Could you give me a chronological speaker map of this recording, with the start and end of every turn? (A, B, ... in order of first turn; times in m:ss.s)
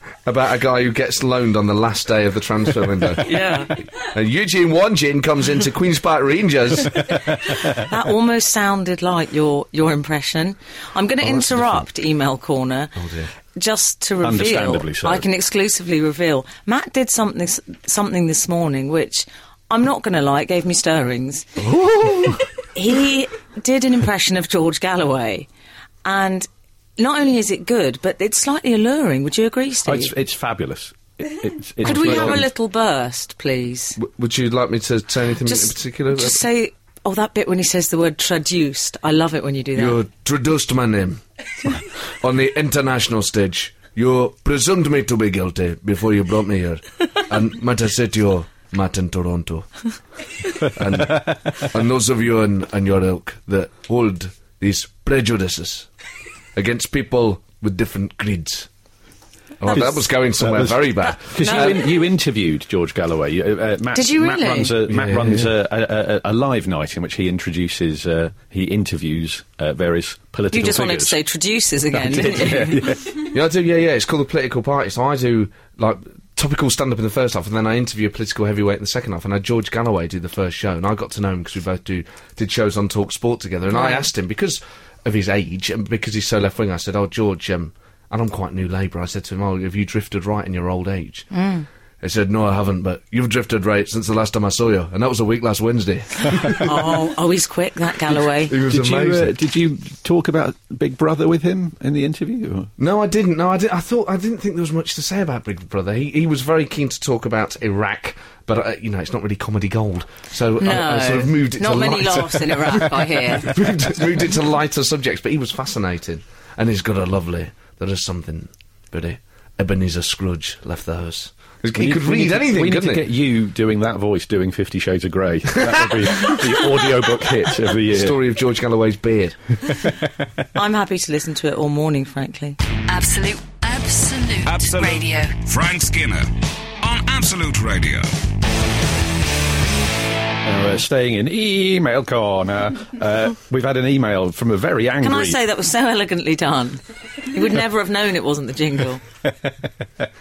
0:00.2-0:07.1 A
0:03.2-0:03.7 B
0:07.4-0:12.9 B
0:13.0-0:13.3 A
0:13.5-0:21.5 B
0:14.2-0:15.2 C
0:21.6-0:22.4 A
0:22.7-0:25.5 B
0:26.0-0:30.1 B
0:29.8-0:32.4 C
0:31.8-0:34.0 B
0:31.8-0:32.4 A
0:34.0-0:36.4 A
0:35.4-0:40.0 B
0:39.7-0:41.2 A
0:42.2-0:49.7 A
0:50.6-0:55.9 A
0:56.5-0:58.7 A
0:59.6-1:01.8 A
0:59.7-1:11.2 C
1:01.2-1:01.8 B
1:03.9-1:04.7 B
1:04.9-1:05.5 A
1:10.5-1:12.9 B
1:11.9-1:13.2 C
1:13.2-1:31.3 A
1:23.7-1:24.1 B
1:31.3-1:31.7 B
1:32.0-1:36.7 A
1:36.5-1:38.5 B
1:38.5-1:39.3 A
1:38.6-1:42.7 C
1:42.8-2:03.1 A
1:50.6-1:53.6 B
2:01.7-2:08.2 C
2:05.5-2:05.9 A
2:07.8-2:09.4 A
2:10.5-2:12.6 B
2:12.9-2:15.4 D
2:14.4-2:18.1 E
2:20.4-2:25.4 C
2:25.0-2:29.0 B
2:29.2-2:30.0 C